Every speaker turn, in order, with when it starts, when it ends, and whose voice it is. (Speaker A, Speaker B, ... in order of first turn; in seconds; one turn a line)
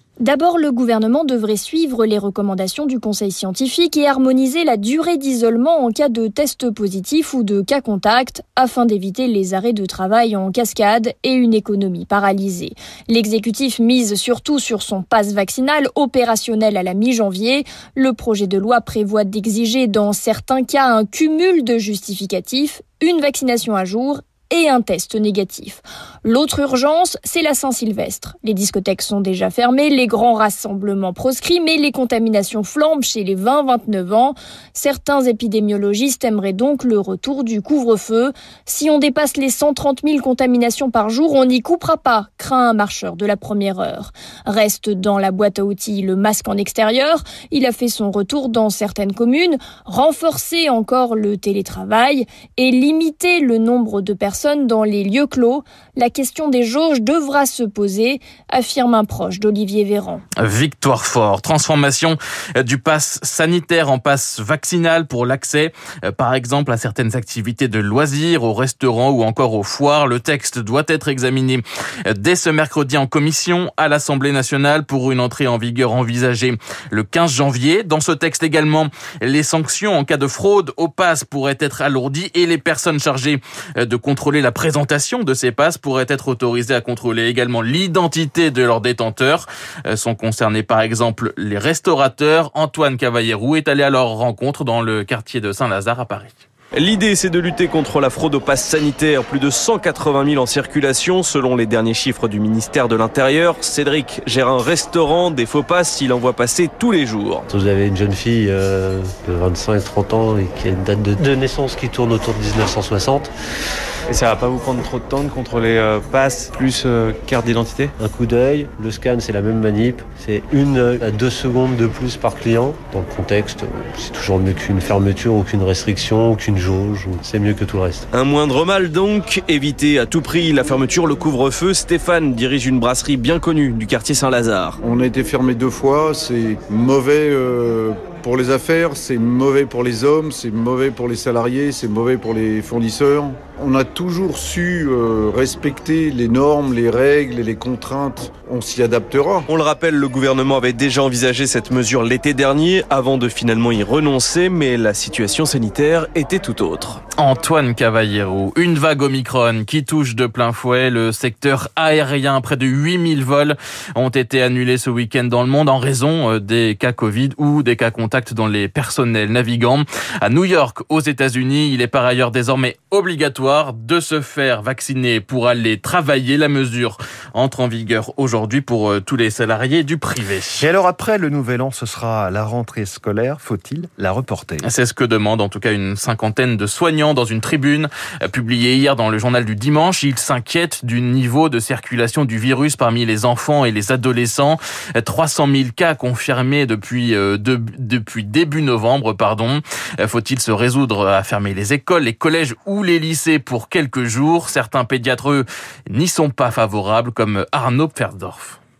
Speaker A: 0.2-60.2
Speaker B: 60.4-96.4
Speaker C: 96.7-107.5
Speaker D: 107.5-113.3
Speaker E: 114.1-117.9
Speaker D: 118.0-128.1
Speaker C: 128.1-134.8
Speaker F: 134.8-149.5
Speaker C: 149.5-157.0
Speaker B: 157.2-180.7
Speaker G: 180.6-184.7
Speaker B: 184.6-208.6